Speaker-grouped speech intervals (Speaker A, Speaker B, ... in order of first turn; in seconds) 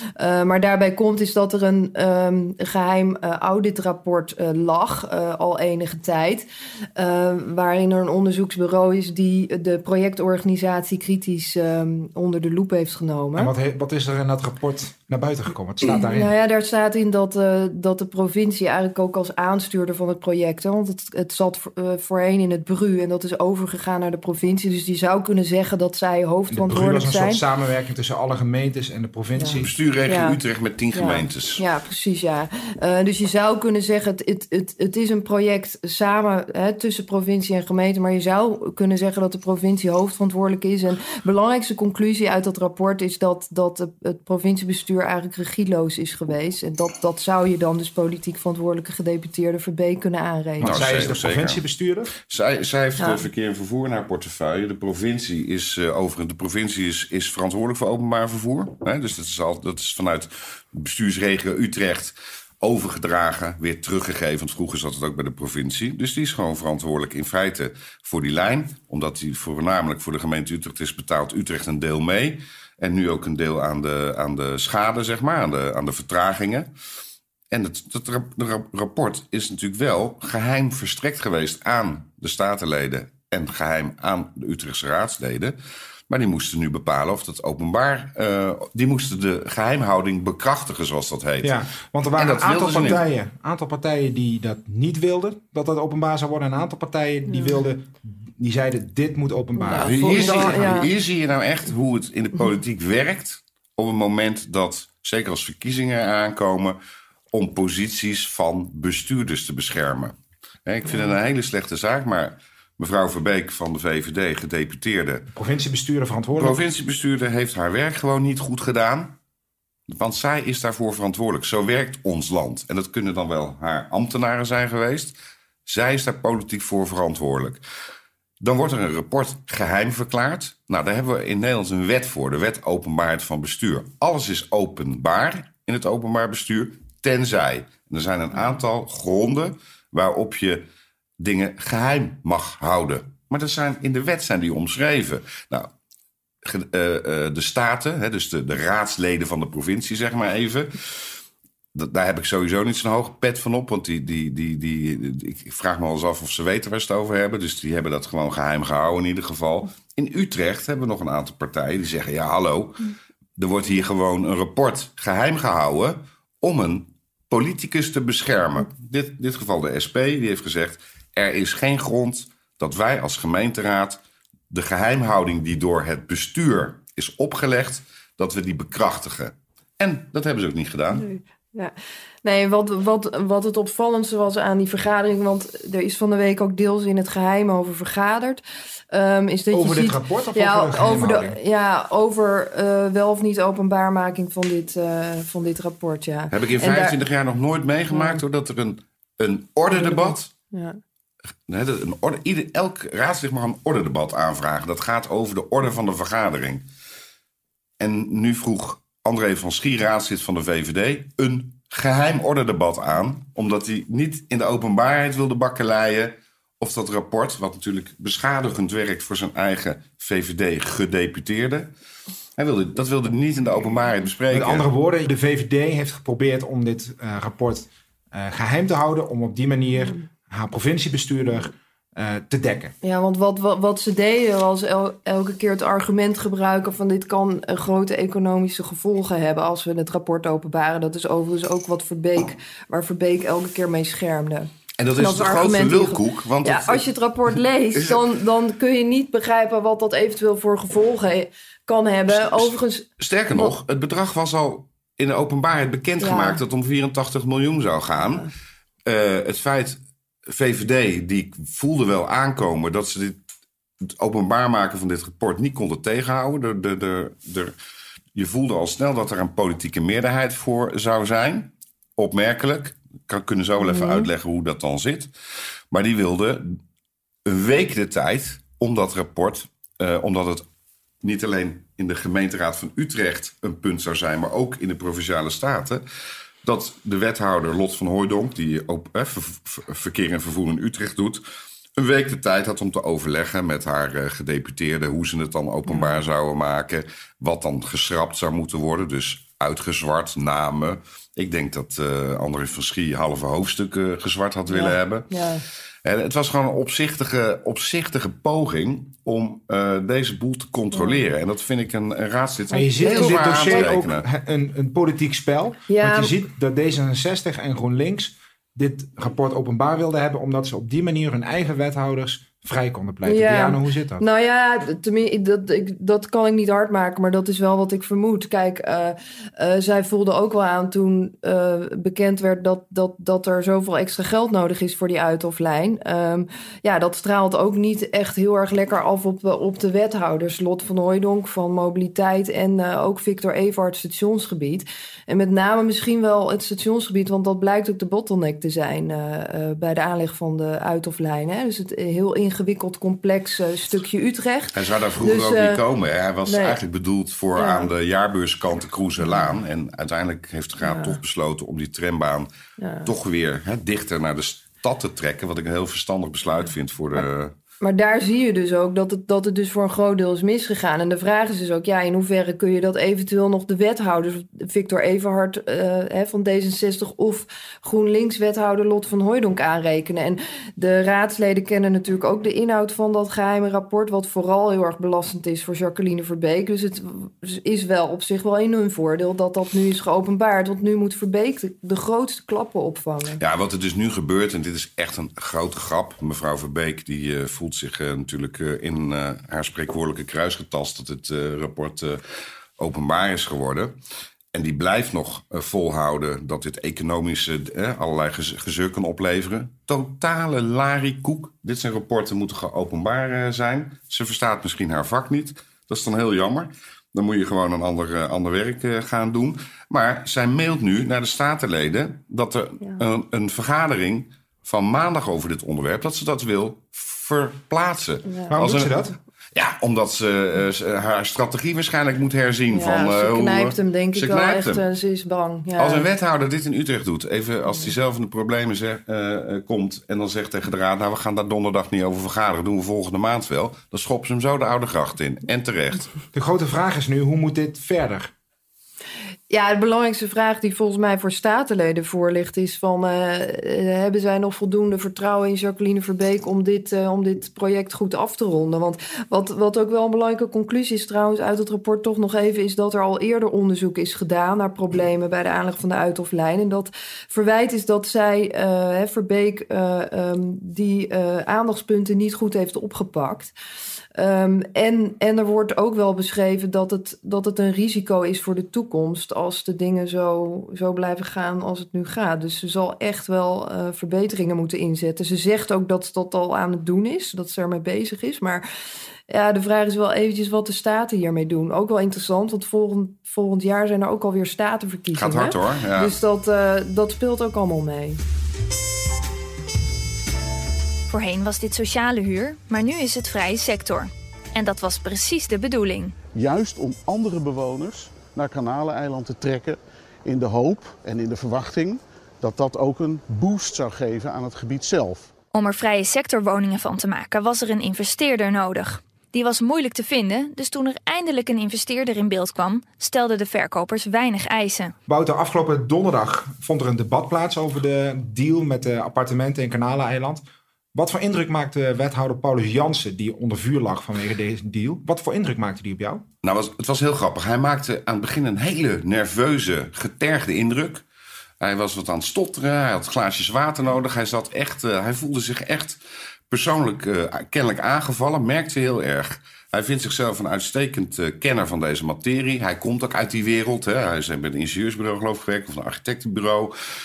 Speaker A: 0.2-13.5, 15.9-27.4, 29.4-30.4, 30.9-50.8, 53.0-53.2, 99.6-100.9, 180.9-196.9, 197.9-198.2, 199.7-200.8, 229.8-230.0, 232.8-253.5, 256.0-256.4, 258.0-258.3, 273.6-274.1, 295.7-296.0, 304.5-305.4, 310.7-311.0, 312.8-313.7, 315.7-316.1, 323.0-355.6, 356.2-356.6, 357.4-357.7, 360.6-361.0, 362.6-362.9, 367.6-393.2, 432.5-435.9, 449.3-473.3, 473.9-488.4, 489.1-498.0
Speaker B: 13.3-16.3, 26.5-29.7, 50.6-52.1, 91.4-100.8, 115.3-116.6, 189.5-191.4, 224.3-232.7, 312.5-324.0, 428.3-429.0, 446.1-448.1, 524.9-536.0
Speaker C: 29.6-31.6, 50.6-51.6, 52.2-76.7, 77.5-85.5, 86.1-91.5, 92.1-93.0, 99.7-106.8, 107.3-115.3, 116.3-119.1, 119.9-127.6, 128.4-140.6, 141.2-145.7, 146.4-151.1, 151.7-174.0, 174.5-181.1, 196.3-200.3, 201.5-206.6, 207.8-221.7, 222.4-224.7, 244.8-246.9, 247.7-248.0, 252.1-258.2, 258.8-263.2, 263.8-267.5, 268.1-275.1, 275.7-276.6, 277.2-280.4, 281.0-285.8, 286.4-291.2, 291.8-305.1, 305.8-314.1, 354.5-362.3, 362.8-367.3, 393.2-402.0, 402.6-403.7, 404.3-428.8, 429.3-434.6, 435.6-445.9, 494.9-495.9, 536.2-540.8, 541.4-545.8, 546.3-556.5
Speaker D: 500.9-505.9, 515.3-524.7
Speaker E: 506.1-515.1